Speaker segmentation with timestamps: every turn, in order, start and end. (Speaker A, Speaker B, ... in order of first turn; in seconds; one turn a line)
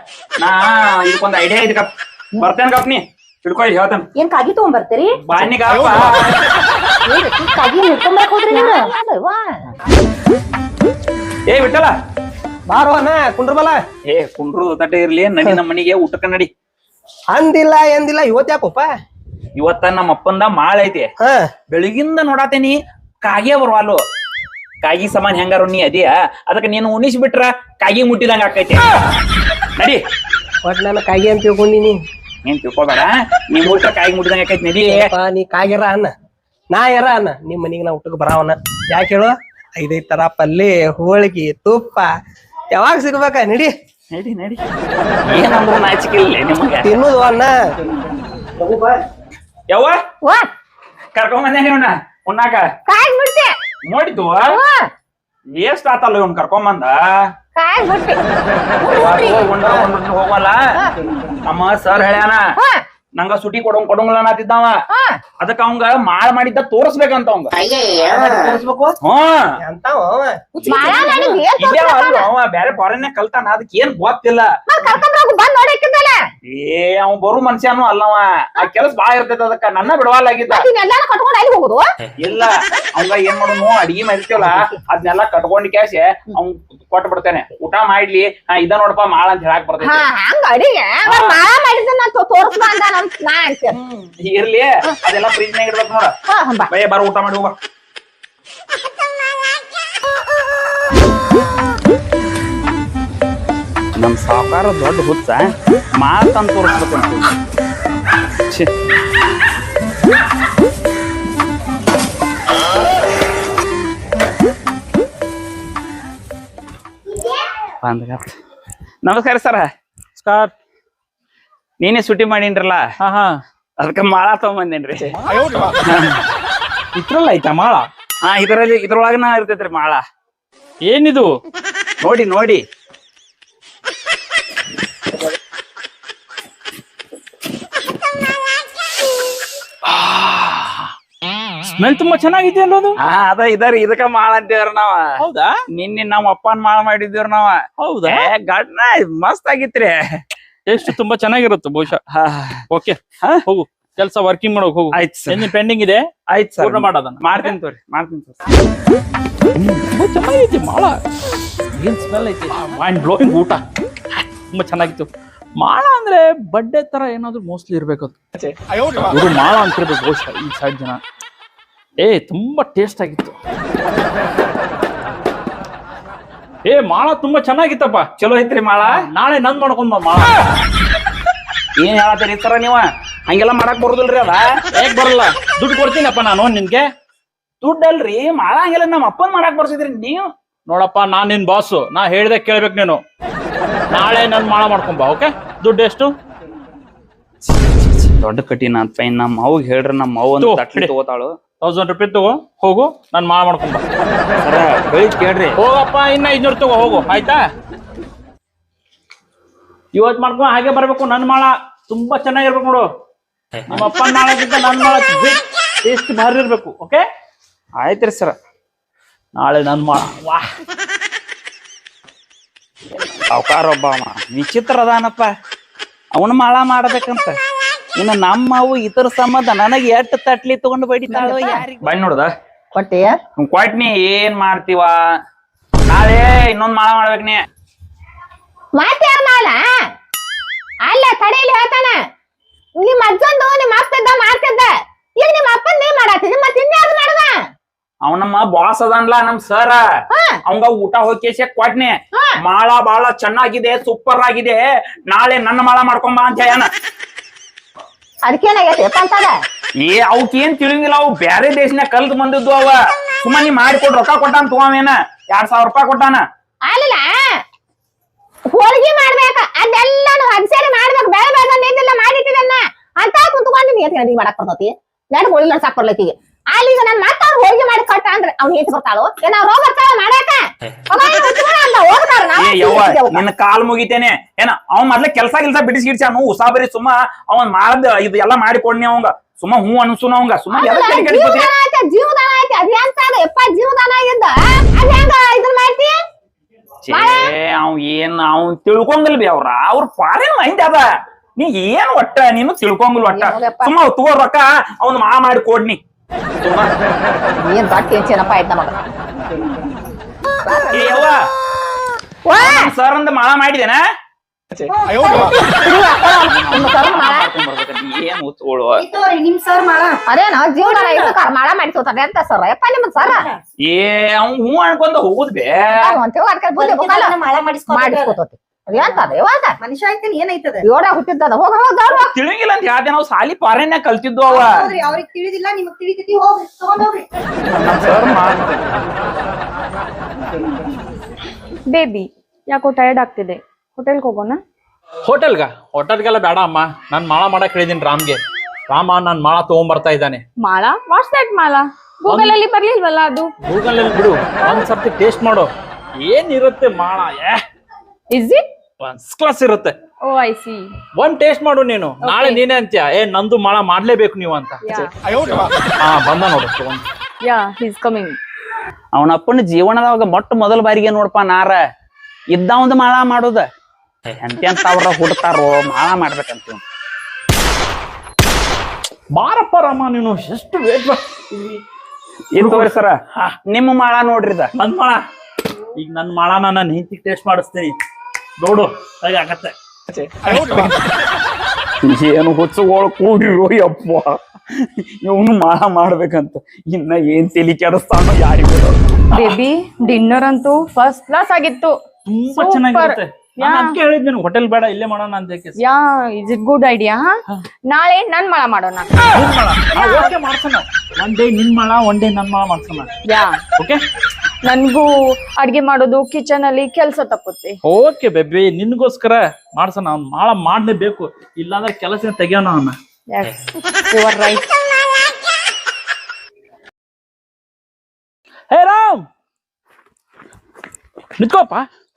Speaker A: 0.4-4.0
Speaker B: 4.2-5.2
Speaker A: 5.2-6.3
Speaker B: 7.0-8.9
Speaker C: 8.5-9.6
Speaker A: 11.5-11.9
Speaker D: 12.7-13.8
Speaker A: 14.1-16.5
Speaker D: 17.3-18.9
Speaker A: 19.6-21.1
Speaker D: 21.2-21.5
Speaker A: 21.7-24.0
Speaker A: 24.8-28.8
Speaker D: 30.6-32.0
Speaker A: 32.4-35.1
Speaker D: 34.8-36.1
Speaker D: 36.7-42.1
Speaker D: 42.7-43.7
Speaker A: 44.1-44.6
Speaker A: 45.3-47.0
Speaker D: 46.8-47.6
Speaker A: 49.7-50.0
Speaker A: 51.1-52.6
Speaker C: 52.9-53.5
Speaker A: 53.9-54.6
Speaker C: 54.5-54.9
Speaker A: 55.5-57.0
Speaker C: 57.5-58.2
Speaker B: 58.8-59.5
Speaker A: 58.9-60.6
Speaker A: 61.5-62.5
Speaker A: 63.2-64.7
Speaker A: 65.4-67.5
Speaker D: 67.9-68.9
Speaker A: 69.0-69.4
Speaker D: 69.6-70.6
Speaker A: 70.6-74.5
Speaker B: 70.6-71.4
Speaker C: 70.7-72.3
Speaker C: 74.7-76.1
Speaker A: 76.5-80.6
Speaker C: 80.5-81.8
Speaker A: 82.2-90.1
Speaker C: 89.8-93.8
Speaker A: 91.0-91.4
Speaker A: 93.9-96.1
Speaker C: 96.3-96.7
Speaker A: 96.7-97.5
Speaker A: 104.0-107.3
Speaker A: 117.8-118.3
Speaker A: 119.0-119.7
Speaker E: 120.2-120.5
Speaker A: 121.8-122.8
Speaker E: 123.0-123.4
Speaker A: 123.8-125.1
Speaker E: 125.1-125.7
Speaker A: 125.8-126.2
Speaker E: 126.9-127.9
Speaker A: 128.2-130.0
Speaker E: 130.8-131.3
Speaker A: 132.0-132.6
Speaker E: 139.9-140.9
Speaker E: 141.7-142.9
Speaker A: 143.0-145.0
Speaker E: 145.2-145.5
Speaker A: 145.7-150.0
Speaker E: 147.8-148.3
Speaker E: 150.7-152.0
Speaker A: 152.1-152.6
Speaker E: 152.7-156.1
Speaker A: 154.9-155.4
Speaker A: 156.3-158.4
Speaker E: 156.6-157.5
Speaker E: 159.8-161.0
Speaker E: 161.7-163.6
Speaker E: 164.5-168.2
Speaker E: 169.0-171.0
Speaker E: 172.0-173.3
Speaker E: 176.6-178.1
Speaker A: 178.2-178.9
Speaker E: 178.9-180.3
Speaker A: 181.8-184.5
Speaker E: 184.8-186.9
Speaker A: 187.6-190.2
Speaker E: 190.7-193.0
Speaker E: 193.9-196.1
Speaker A: 197.5-201.3
Speaker E: 200.4-200.9
Speaker E: 201.6-203.8
Speaker A: 204.4-205.6
Speaker E: 205.6-207.4
Speaker E: 209.9-212.9
Speaker E: 213.7-217.0
Speaker A: 217.8-218.3
Speaker E: 219.4-220.4
Speaker A: 223.3-225.3
Speaker A: 226.1-227.3
Speaker A: 228.0-232.3
Speaker C: 231.1-231.6
Speaker C: 232.7-233.1
Speaker A: 233.4-235.0
Speaker A: 235.9-237.4
Speaker C: 238.8-239.6
Speaker C: 240.9-241.9
Speaker C: 242.8-244.7
Speaker C: 245.2-247.3
Speaker A: 248.0-249.8
Speaker A: 250.5-256.7
Speaker C: 258.3-259.3
Speaker A: 259.8-266.2
Speaker C: 266.7-267.4
Speaker C: 268.5-283.2
Speaker A: 282.4-291.5
Speaker C: 290.5-295.9
Speaker A: 296.8-300.8
Speaker C: 296.9-297.3
Speaker A: 301.4-305.8
Speaker C: 303.1-303.7
Speaker A: 306.4-306.7
Speaker C: 307.4-308.7
Speaker C: 310.4-311.0
Speaker A: 310.7-311.2
Speaker C: 312.3-312.7
Speaker A: 312.4-313.8
Speaker B: 314.6-315.4
Speaker C: 315.0-317.3
Speaker A: 316.3-318.8
Speaker B: 318.8-320.0
Speaker C: 320.1-323.2
Speaker B: 320.6-321.1
Speaker B: 323.0-323.4
Speaker A: 323.6-325.9
Speaker C: 325.8-327.1
Speaker B: 326.5-328.2
Speaker C: 327.7-329.5
Speaker B: 328.8-329.1
Speaker B: 329.6-330.6
Speaker C: 330.7-332.1
Speaker A: 331.9-334.6
Speaker B: 334.3-337.0
Speaker A: 337.4-338.6
Speaker F: 341.7-344.4
Speaker E: 345.0-350.2
Speaker F: 350.4-353.3
Speaker E: 352.1-352.4
Speaker E: 353.4-357.4
Speaker F: 358.1-358.4
Speaker E: 358.8-359.7
Speaker F: 360.0-360.6
Speaker E: 361.0-364.6
Speaker F: 362.0-362.4
Speaker F: 364.6-365.5
Speaker E: 365.8-366.9
Speaker F: 367.2-368.2
Speaker A: 368.9-371.6
Speaker A: 372.3-373.4
Speaker A: 374.1-376.6
Speaker E: 379.1-381.6
Speaker A: 382.3-384.5
Speaker E: 382.4-383.3
Speaker E: 384.5-385.0
Speaker E: 385.8-387.7
Speaker E: 388.4-389.5
Speaker E: 390.2-390.8
Speaker A: 391.8-398.8
Speaker F: 399.1-401.7
Speaker E: 402.1-405.6
Speaker F: 402.3-403.8
Speaker F: 405.6-407.1
Speaker F: 407.7-409.1
Speaker E: 409.1-412.9
Speaker F: 409.8-410.1
Speaker F: 413.1-413.4
Speaker F: 414.4-417.6
Speaker E: 417.6-422.8
Speaker F: 423.1-424.4
Speaker E: 428.5-429.1
Speaker E: 431.2-431.7